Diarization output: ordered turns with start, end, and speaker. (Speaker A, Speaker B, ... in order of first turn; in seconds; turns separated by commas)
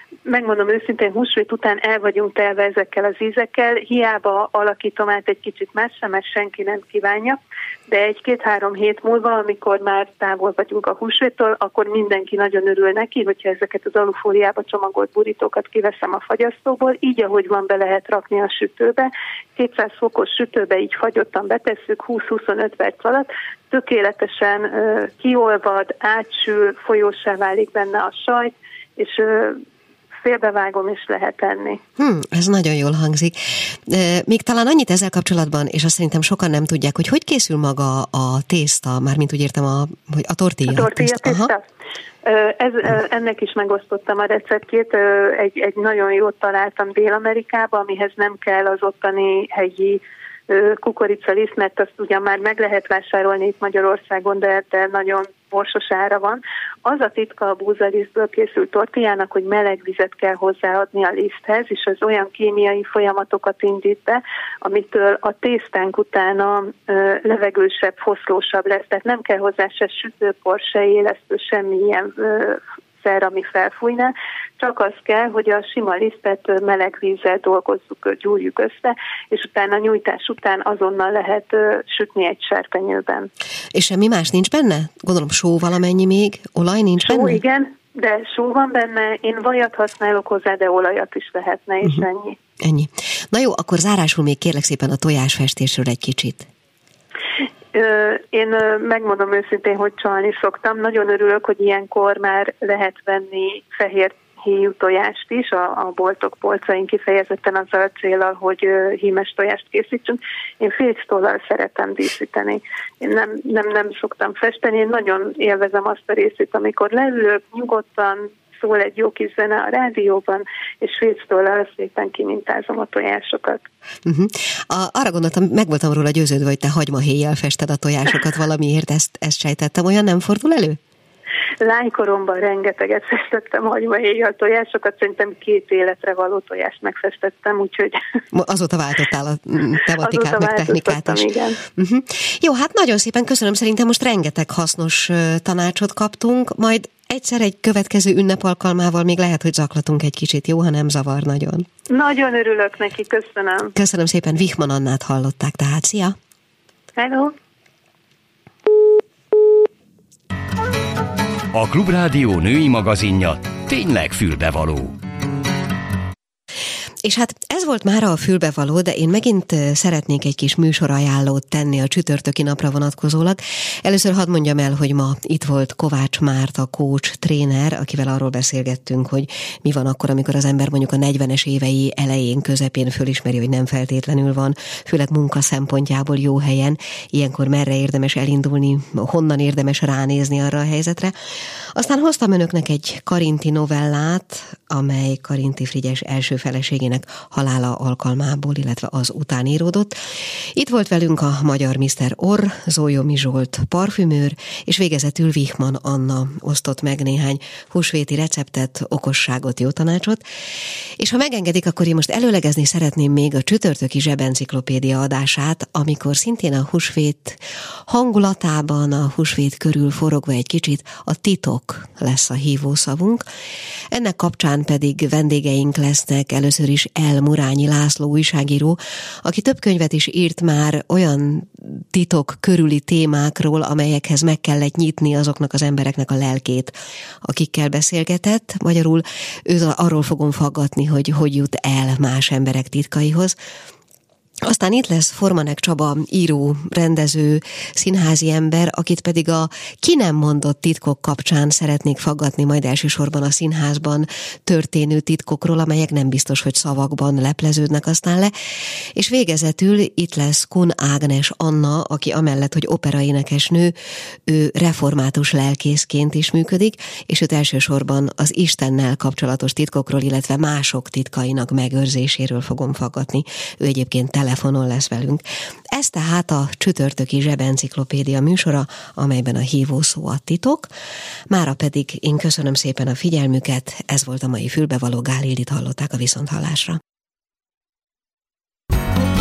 Speaker A: 0.2-29.6, Speaker A: 30.2-31.8, Speaker B: 32.0-41.5, Speaker A: 40.7-41.6, Speaker A: 42.2-83.3, Speaker B: 83.7-87.4, Speaker A: 87.0-92.3, Speaker B: 92.6-96.5, Speaker A: 97.7-123.6, Speaker B: 124.0-130.8, Speaker A: 131.6-138.2, Speaker B: 138.3-151.7, Speaker A: 140.0-141.6, Speaker A: 151.9-153.7, Speaker B: 153.8-156.1, Speaker A: 157.0-157.3, Speaker C: 161.5-164.9, Speaker B: 167.0-191.1, Speaker B: 191.7-199.9, Speaker B: 200.6-210.2, Speaker B: 211.0-223.2, Speaker B: 223.9-243.3, Speaker B: 244.4-258.3, Speaker B: 258.9-263.7, Speaker B: 264.3-280.7, Speaker B: 281.3-286.8